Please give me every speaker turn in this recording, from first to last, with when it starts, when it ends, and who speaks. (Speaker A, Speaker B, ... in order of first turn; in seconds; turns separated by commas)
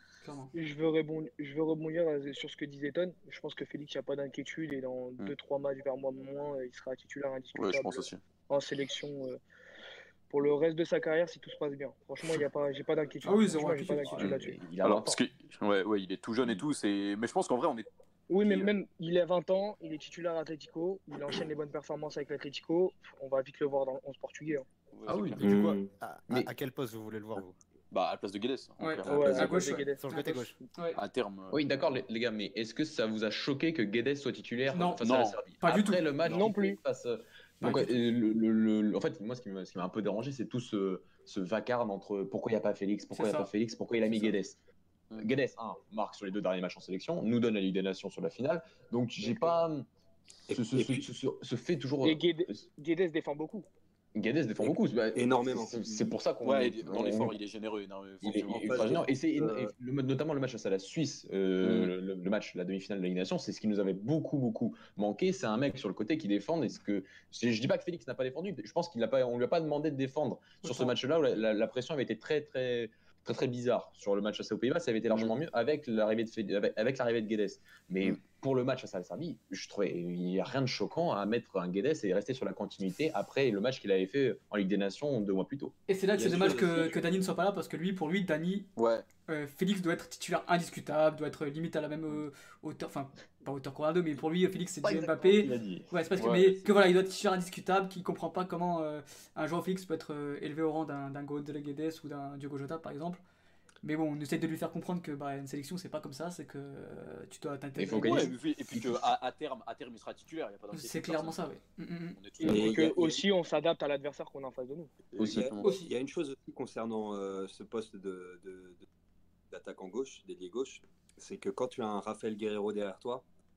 Speaker A: 0.2-0.5, Speaker B: 0.5-9.4, Speaker C: 7.5-8.2, Speaker B: 10.3-14.7, Speaker A: 13.2-14.4, Speaker D: 14.1-15.2, Speaker C: 14.8-17.9, Speaker B: 18.3-24.6, Speaker C: 18.4-18.7, Speaker C: 24.9-25.5, Speaker D: 25.1-25.6, Speaker E: 25.3-27.5, Speaker F: 25.4-25.9, Speaker C: 27.9-29.8, Speaker A: 28.8-30.2, Speaker B: 29.0-30.5, Speaker D: 29.1-29.4, Speaker E: 29.8-30.6, Speaker A: 30.7-31.0, Speaker C: 30.9-31.6, Speaker D: 31.5-44.6, Speaker A: 34.7-36.0, Speaker C: 35.0-35.4, Speaker B: 36.2-36.8, Speaker A: 37.6-37.9, Speaker A: 43.1-43.5, Speaker D: 45.1-49.9, Speaker F: 50.5-51.0, Speaker D: 50.5-52.6, Speaker B: 52.0-53.7, Speaker D: 54.1-57.4, Speaker F: 54.6-56.1, Speaker C: 56.4-59.0, Speaker F: 58.2-59.7, Speaker D: 58.2-87.0, Speaker C: 61.6-61.9, Speaker A: 70.6-71.0, Speaker A: 85.9-88.7, Speaker C: 88.8-89.0, Speaker A: 89.3-103.2, Speaker D: 94.8-95.9, Speaker C: 96.2-96.7, Speaker A: 103.8-108.4, Speaker D: 107.8-109.0, Speaker C: 107.9-111.4, Speaker A: 110.7-112.2, Speaker C: 112.2-113.2, Speaker B: 112.4-114.9, Speaker F: 112.5-113.2, Speaker C: 115.1-115.7, Speaker D: 115.2-115.5, Speaker F: 115.2-118.8, Speaker A: 115.6-115.9, Speaker F: 119.5-123.2